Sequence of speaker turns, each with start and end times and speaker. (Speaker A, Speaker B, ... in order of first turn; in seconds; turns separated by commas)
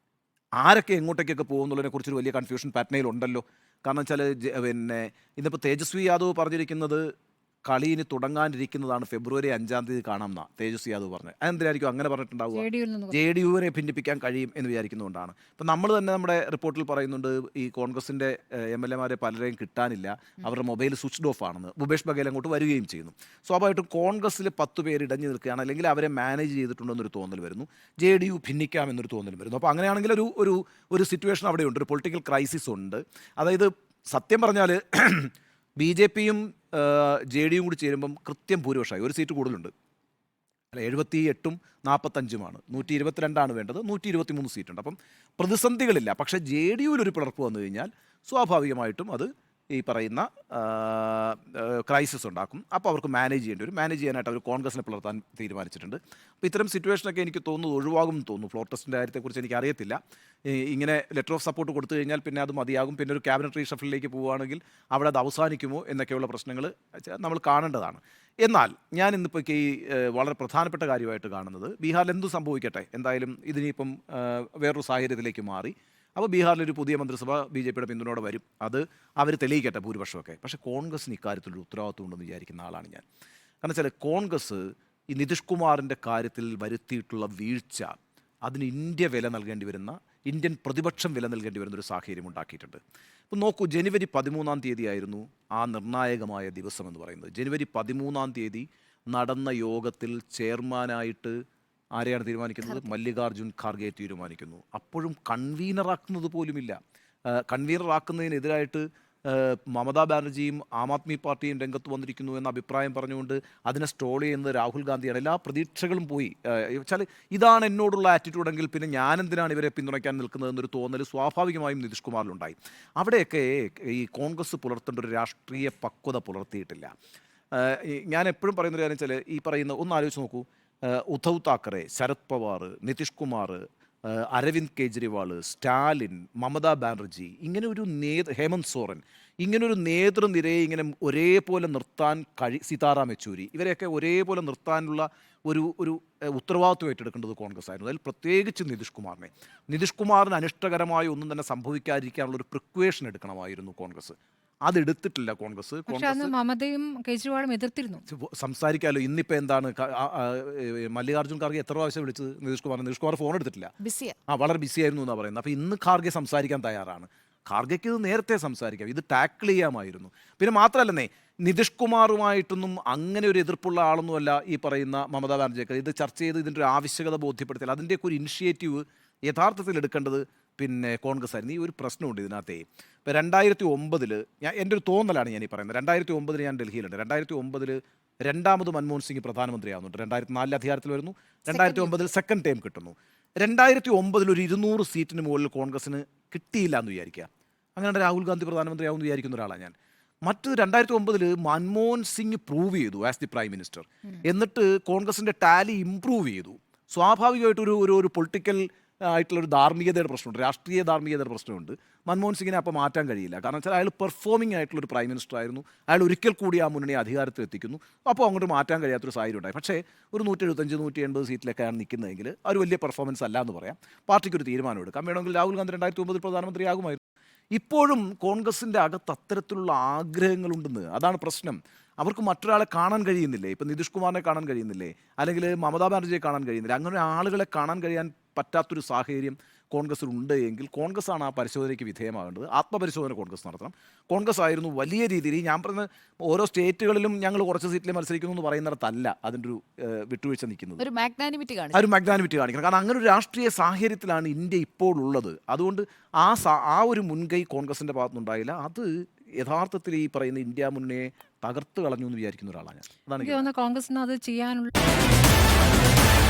Speaker A: 0.6-7.0, Speaker A: 7.7-39.7, Speaker B: 12.5-13.2, Speaker A: 40.7-83.0, Speaker A: 83.6-92.8, Speaker A: 93.3-101.3, Speaker A: 102.0-106.8, Speaker A: 107.3-126.9, Speaker A: 127.5-156.3, Speaker B: 155.9-158.0, Speaker A: 158.1-163.7, Speaker C: 163.8-164.2, Speaker A: 164.3-227.0, Speaker C: 191.5-191.9, Speaker A: 227.5-250.8, Speaker C: 250.8-251.9, Speaker A: 251.7-263.5, Speaker B: 263.2-264.7